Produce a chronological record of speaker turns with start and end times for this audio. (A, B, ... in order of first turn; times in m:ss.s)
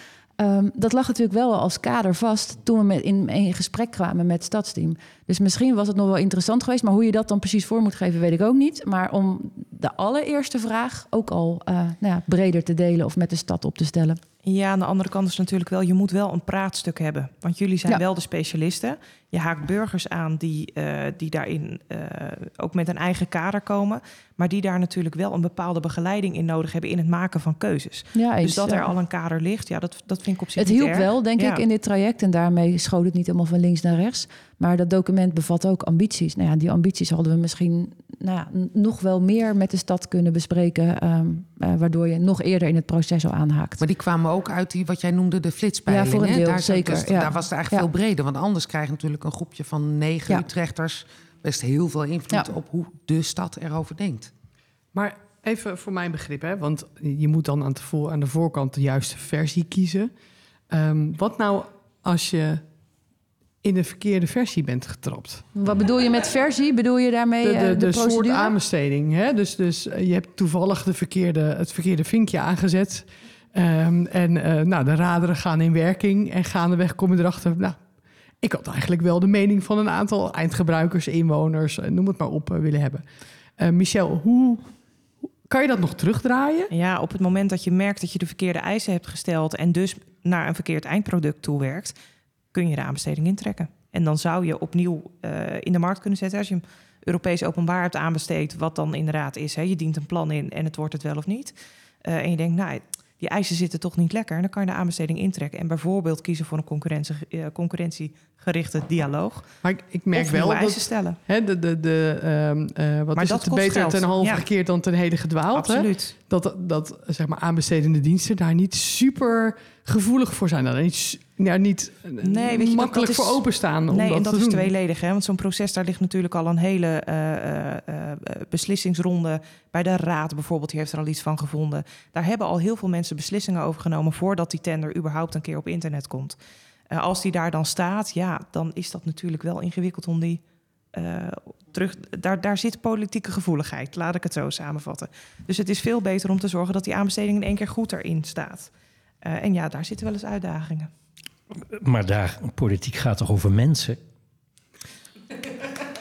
0:00.4-0:14.2 A
0:14.4-0:31.6 B
0:28.1-0:28.9 A
0:30.6-0:43.8 A
0:43.8-0:54.3 C
0:45.9-0:47.9 A
0:54.9-1:00.1 D
1:00.7-1:02.6 D
1:03.6-1:05.4 D
1:05.5-1:08.5 A
1:07.4-1:17.8 D
1:18.4-1:23.0 D
1:23.6-1:24.7 D
1:25.4-1:26.7 D
1:26.7-1:31.9 B
1:32.5-1:49.5 B
1:49.6-2:04.7 D
1:50.1-1:51.2 B
1:53.1-1:54.5 B
1:55.5-1:56.1 B
2:02.2-2:16.4 B
2:16.9-2:28.7 B
2:29.2-2:30.9 B
2:31.7-2:34.0 E